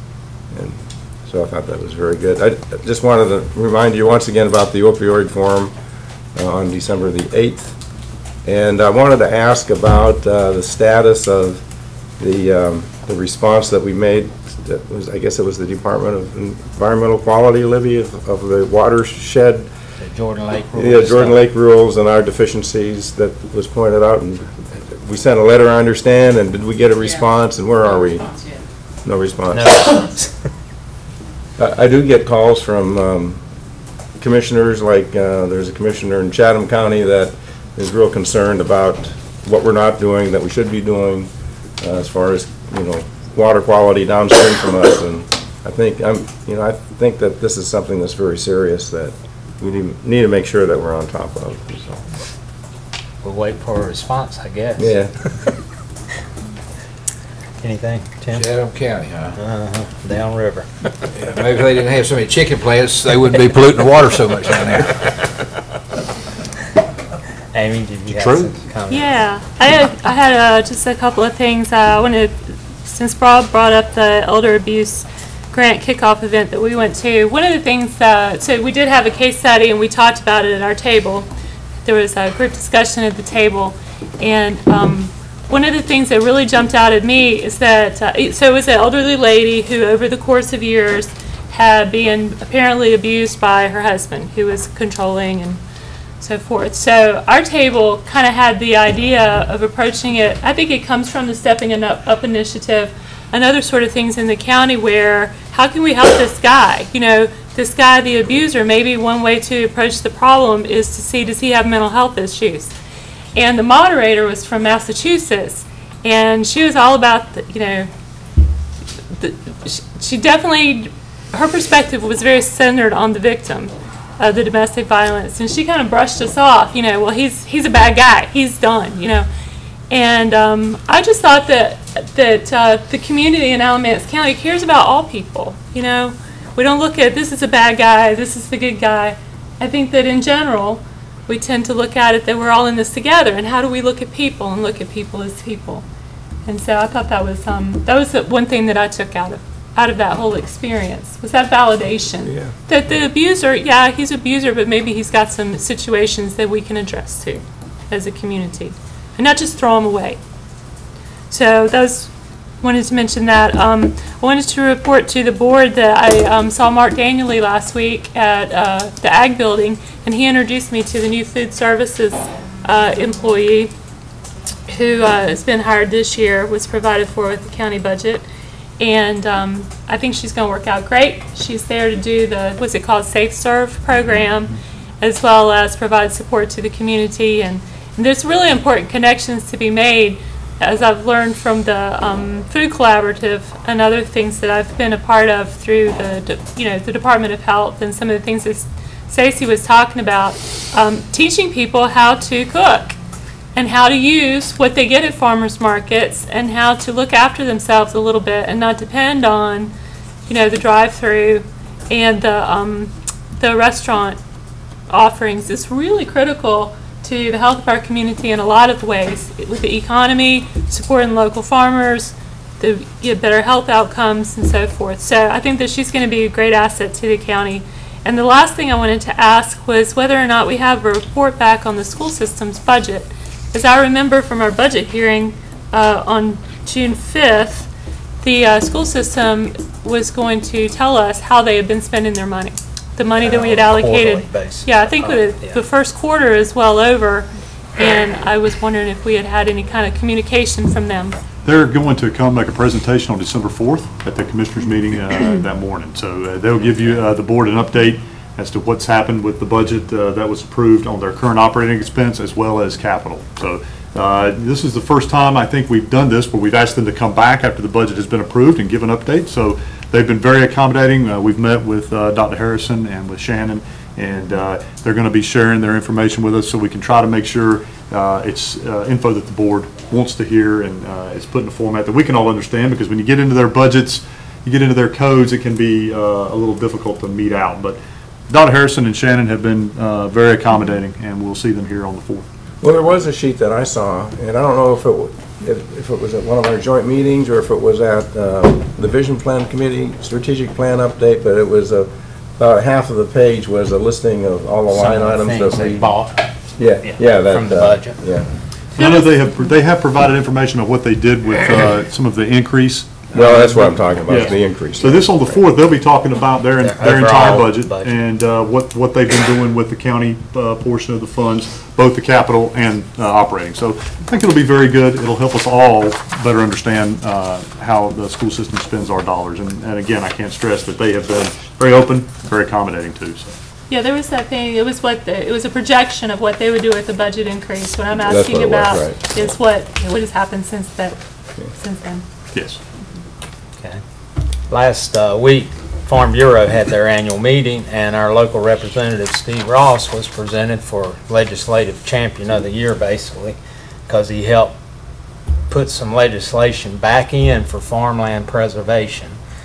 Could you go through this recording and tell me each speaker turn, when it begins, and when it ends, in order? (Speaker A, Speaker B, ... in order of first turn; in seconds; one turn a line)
Speaker A: 0.5-5.7
Speaker A: 6.3-7.8
Speaker A: 8.4-11.6
Speaker A: 12.2-19.7
Speaker B: 20.0-21.4
Speaker A: 20.8-28.4
Speaker A: 29.1-30.1
Speaker B: 29.5-30.4
Speaker A: 31.6-33.4
Speaker A: 34.2-52.1
Speaker B: 53.2-55.0
Speaker A: 54.8-55.1
Speaker B: 57.6-58.5
Speaker C: 58.3-59.4
Speaker B: 59.4-60.7
Speaker C: 61.1-65.3
Speaker B: 67.5-69.1
Speaker C: 68.1-68.5
Speaker D: 68.9-81.3
Speaker D: 81.8-95.6
Speaker D: 96.2-112.7
Speaker D: 113.3-117.9
Speaker D: 119.1-129.3
Speaker D: 129.9-145.8
Speaker D: 146.4-160.2
Speaker D: 161.3-173.7
Speaker D: 174.7-178.2
Speaker D: 178.8-203.0
Speaker D: 203.6-209.7
Speaker D: 210.3-214.2
Speaker D: 214.9-237.7
Speaker D: 238.2-251.2
Speaker B: 243.2-245.6
Speaker E: 251.4-287.8
Speaker E: 288.3-292.3
Speaker A: 292.6-306.0
Speaker B: 304.7-306.3
Speaker A: 306.6-308.3
Speaker B: 306.8-308.0
Speaker E: 308.8-333.4
Speaker A: 313.1-315.2
Speaker B: 316.6-318.0
Speaker D: 333.7-341.0
Speaker A: 338.0-339.0
Speaker D: 341.5-342.0
Speaker E: 342.3-342.6
Speaker B: 344.5-353.4
Speaker B: 353.9-354.6
Speaker B: 355.5-359.2